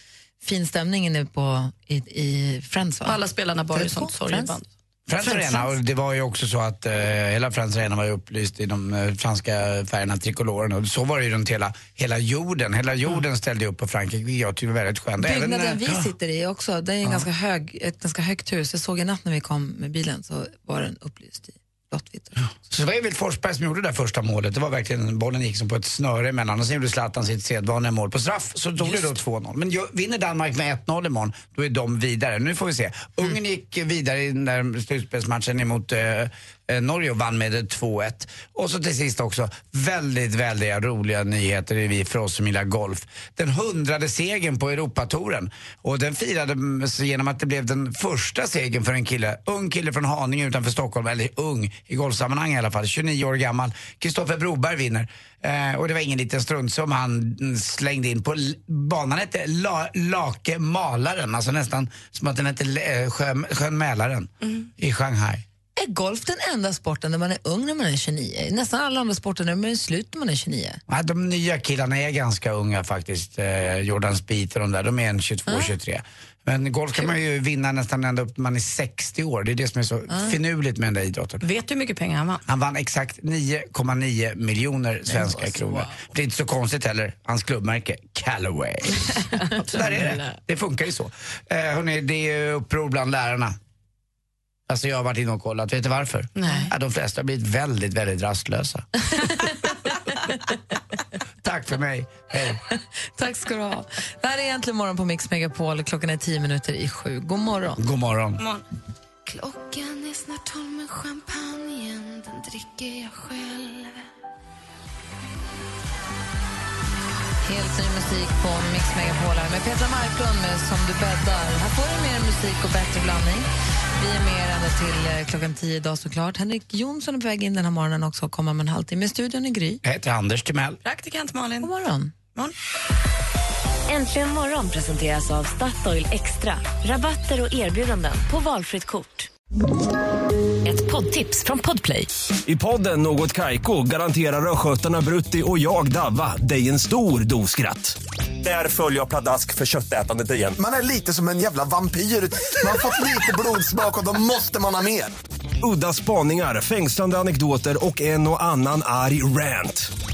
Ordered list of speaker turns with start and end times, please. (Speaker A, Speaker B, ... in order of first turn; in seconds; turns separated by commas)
Speaker A: 0.4-3.2, Speaker B: 3.0-4.7, Speaker A: 3.7-4.6, Speaker C: 5.1-16.1, Speaker A: 5.2-5.7, Speaker A: 15.2-22.4, Speaker C: 22.7-65.4, Speaker B: 64.4-64.7, Speaker A: 65.8-70.8, Speaker C: 70.9-81.4, Speaker A: 80.1-80.3, Speaker B: 81.4-82.4, Speaker C: 82.5-93.6, Speaker B: 85.6-85.9, Speaker B: 89.6-90.4, Speaker C: 94.7-98.9, Speaker B: 96.4-96.7, Speaker C: 101.4-102.6, Speaker A: 102.7-107.8, Speaker C: 107.8-108.4, Speaker B: 108.4-108.6, Speaker D: 109.3-114.0, Speaker A: 117.4-129.8, Speaker C: 129.8-130.8, Speaker B: 130.8-131.7, Speaker A: 131.6-132.1, Speaker E: 133.9-139.3, Speaker E: 140.6-142.1, Speaker F: 142.4-150.6, Speaker G: 150.6-155.1, Speaker F: 155.6-159.9